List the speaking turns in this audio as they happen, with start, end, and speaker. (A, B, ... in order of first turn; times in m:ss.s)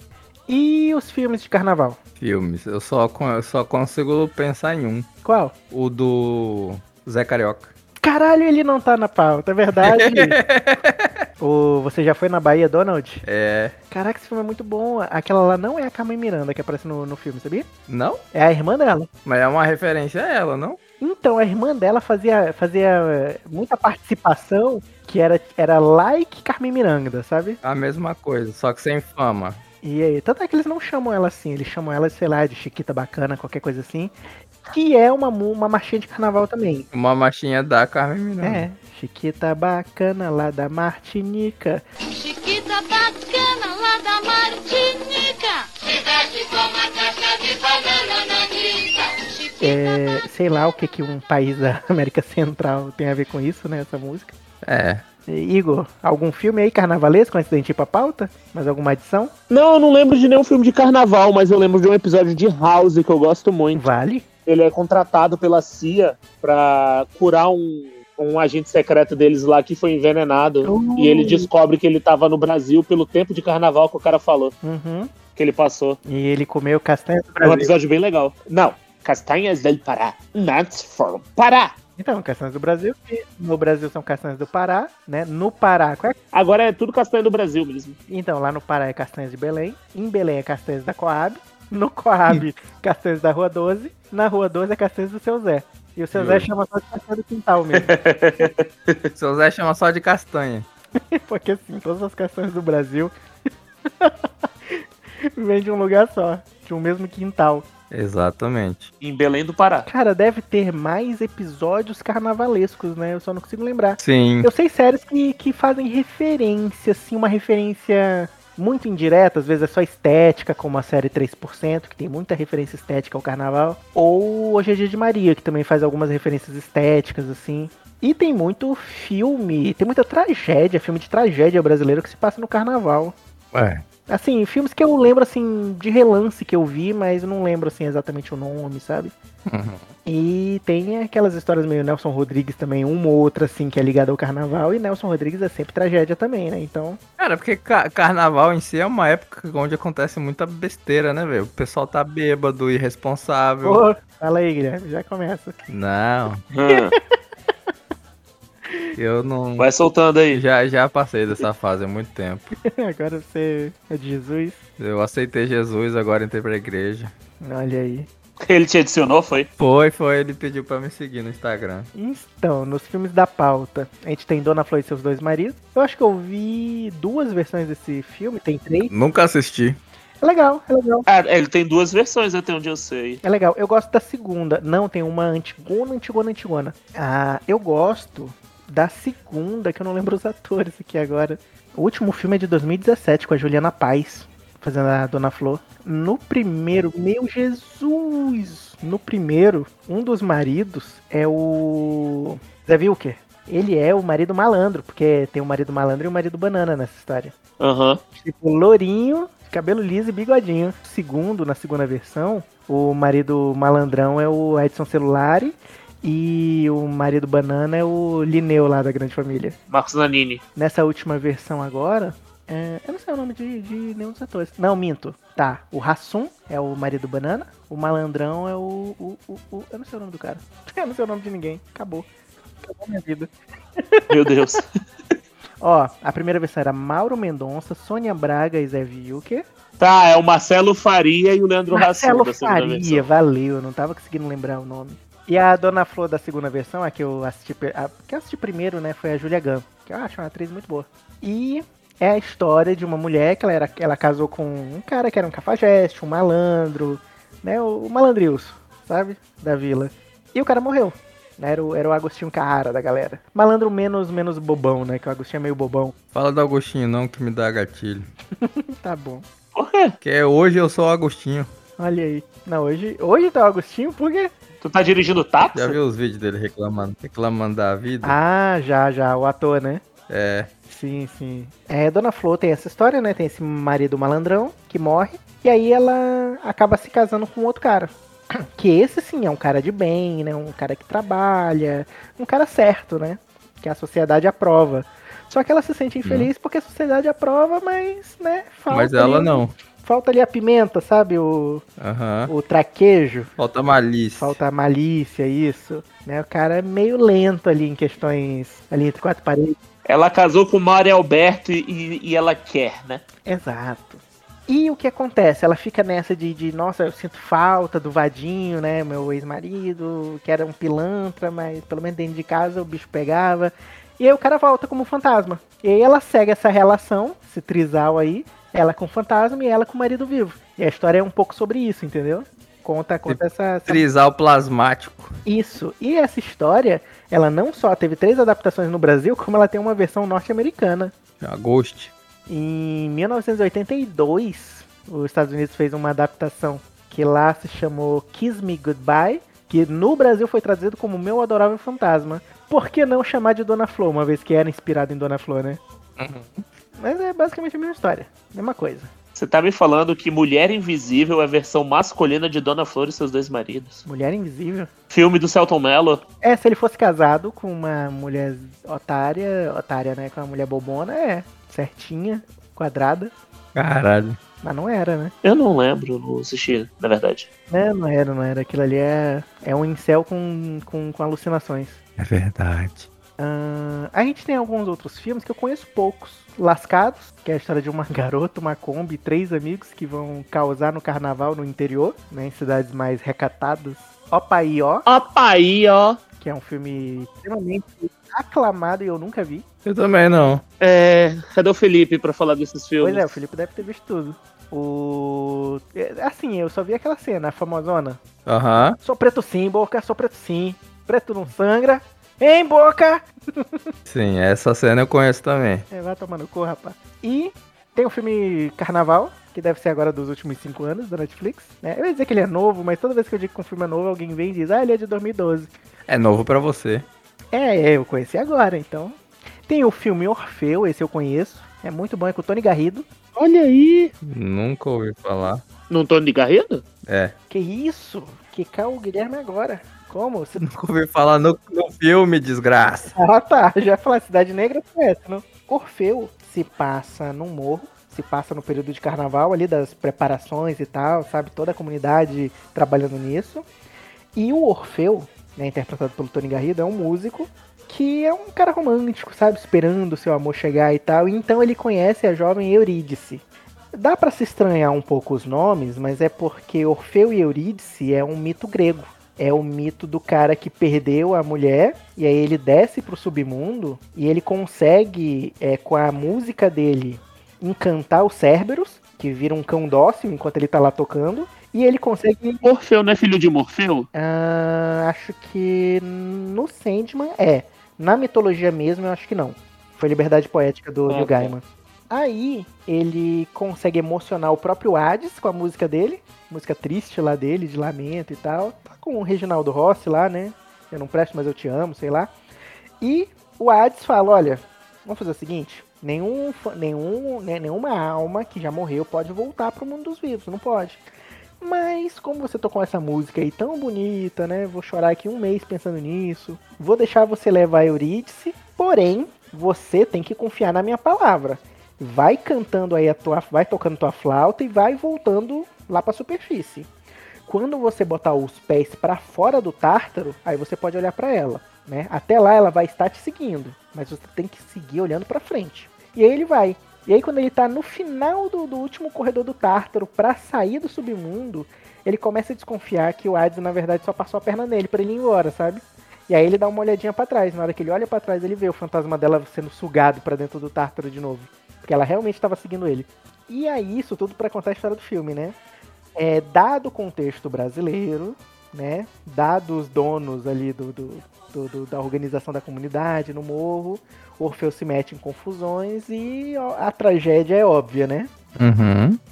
0:00.5-0:02.0 A
0:02.2-0:05.1 B
0:05.2-0:05.5 A
0:05.7-0:07.7 B
0:08.0-0:10.4 A
0:09.8-0:11.2 B
0:11.4-0:13.2 A
0:13.2-0:13.8 B
0:13.9-0:17.7 A
0:17.9-0:18.2 B
0:18.3-0:19.1 A
0:19.2-0:20.8 B
0:21.0-0:27.6 A
0:27.6-0:29.6 B
0:29.8-0:34.1 A
0:34.6-0:36.9 A
0:36.9-0:38.7 B
0:38.4-0:41.8 A
0:42.1-0:49.8 C
0:49.6-0:54.3 A
0:54.6-0:55.0 B
0:55.3-0:59.3 A
0:59.5-1:03.9 D
1:03.8-1:04.2 A
1:04.5-1:14.6 D
1:10.6-1:11.5 A
1:14.6-1:15.1 A
1:15.4-1:16.0 D
1:16.1-1:17.7 A
1:17.4-1:21.8 D
1:22.0-1:26.2 A
1:26.3-1:28.0 D
1:28.1-1:37.9 A
1:36.1-1:36.5 B
1:37.7-1:39.0 D
1:39.2-1:40.7 B
1:41.1-1:43.1 A
1:45.4-1:47.7 A
1:47.9-1:48.9 B
1:49.0-1:49.9 D
1:49.9-2:13.2 A
1:54.0-1:54.5 B
2:13.5-2:13.8 B
2:14.1-2:19.1 A
2:19.5-2:19.9 B
2:20.1-2:27.0 A
2:27.2-2:33.8 B
2:33.6-2:35.6 A
2:35.7-2:36.4 B
2:36.5-2:36.9 D
2:39.0-2:39.7 B
2:39.6-2:40.4 D
2:40.3-2:42.5 B
2:42.7-2:44.6 A
2:44.8-2:47.1 B
2:47.4-2:48.1 A
2:48.4-2:49.5 D
2:49.6-2:51.9 B
2:52.0-2:58.9 A
2:58.9-2:59.8 B
3:00.2-3:01.1 A
3:01.1-3:03.2 D
3:03.2-3:27.3 A
3:27.6-3:28.0 D
3:28.2-3:39.6 A
3:39.7-3:40.4 D
3:40.6-3:52.1 A
3:52.6-3:54.1 A
3:54.1-3:54.7 D
3:55.6-3:59.4 A
3:59.8-4:03.1 D
4:01.7-4:25.9 A
4:26.2-4:28.1 B
4:28.4-4:29.3 A
4:29.6-4:30.0 D
4:30.0-4:31.5 B
4:31.8-4:34.3 A
4:34.6-4:35.8 D
4:35.5-4:38.2 B
4:38.0-4:39.8 A
4:40.1-4:40.5 B
4:40.7-5:01.6 A
4:56.0-4:56.3 B
4:58.7-4:59.5 B
5:01.8-5:02.3 B
5:02.3-5:03.3 A
5:03.4-5:04.4 B
5:04.2-5:09.6 A
5:09.9-5:13.0 D
5:13.3-5:33.8 A
5:33.1-5:35.2 B
5:35.3-5:40.9 A
5:41.2-5:41.9 B
5:42.3-5:55.6 A
5:56.0-5:56.4 B
5:56.8-5:58.9 A
5:59.2-6:03.8 D
6:03.8-6:04.7 A
6:04.9-6:06.0 D
6:06.2-6:13.1 A
6:13.6-6:14.2 B
6:14.4-6:15.1 A
6:15.2-6:17.3 D
6:17.5-6:21.8 A
6:22.0-6:22.9 B
6:23.2-6:34.9 A
6:34.9-6:36.0 D
6:36.2-6:39.4 A
6:39.6-6:40.4 B
6:40.6-6:43.2 D
6:42.8-6:48.0 A
6:48.3-6:48.8 B
6:48.8-6:53.6 A
6:53.9-6:55.7 B
6:55.7-7:05.5 A
7:05.9-7:06.9 B
7:07.3-7:13.9 A
7:14.0-7:15.4 B
7:15.7-7:16.6 D
7:16.8-7:17.1 B
7:17.3-7:20.4 A
7:20.4-7:22.9 B
7:22.9-7:33.5 A
7:34.2-8:02.4 A
8:02.4-8:03.9 D
8:03.9-8:22.1 A
8:10.9-8:11.3 D
8:22.8-8:30.8 A
8:31.4-8:46.7 A
8:47.3-9:15.4 A
9:16.0-9:28.1 A
9:28.4-9:29.0 B